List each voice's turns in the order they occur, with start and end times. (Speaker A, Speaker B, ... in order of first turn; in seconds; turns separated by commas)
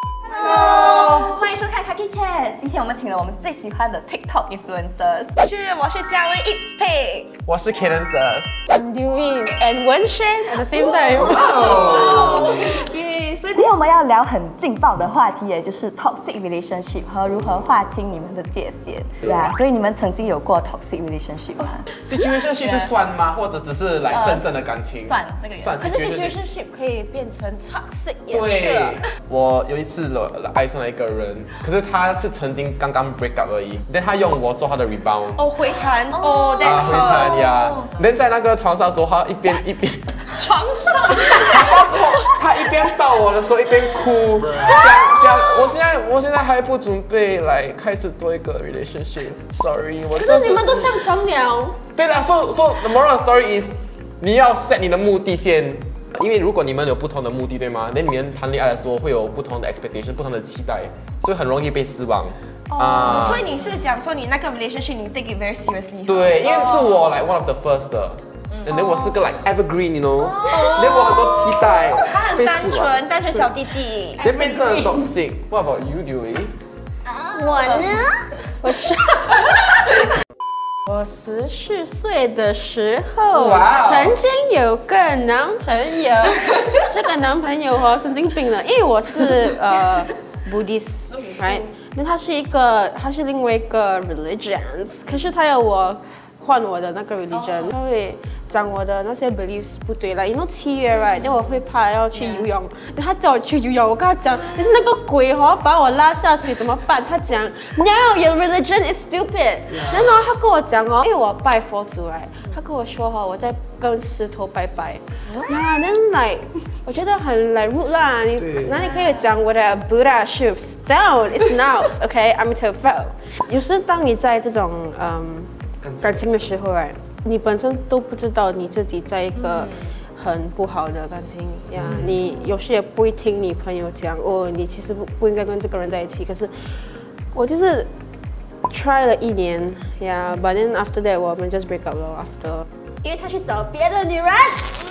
Speaker A: 0.2-5.3, Speaker B: 5.4-7.3, Speaker C: 7.5-8.6, Speaker D: 8.7-12.0, Speaker B: 10.8-13.6, Speaker A: 13.5-21.9, Speaker C: 21.9-26.4, Speaker A: 22.6-22.9, Speaker A: 24.1-25.7, Speaker D: 25.8-29.0, Speaker C: 28.3-35.4, Speaker B: 35.4-37.5, Speaker A: 36.1-38.0, Speaker C: 36.6-40.2, Speaker B: 40.4-42.0, Speaker C: 41.2-51.0, Speaker D: 50.1-51.8, Speaker C: 51.9-63.4, Speaker B: 62.7-66.4, Speaker C: 66.0-73.5, Speaker B: 70.5-74.2, Speaker C: 74.2-76.5, Speaker B: 77.1-77.9, Speaker D: 77.3-79.5, Speaker D: 80.9-137.9, Speaker C: 83.3-84.2, Speaker C: 109.7-110.2, Speaker C: 118.4-118.8, Speaker C: 125.8-126.4, Speaker A: 129.7-130.0, Speaker C: 131.8-132.2, Speaker D: 138.7-142.7, Speaker A: 143.1-144.2, Speaker D: 143.9-144.7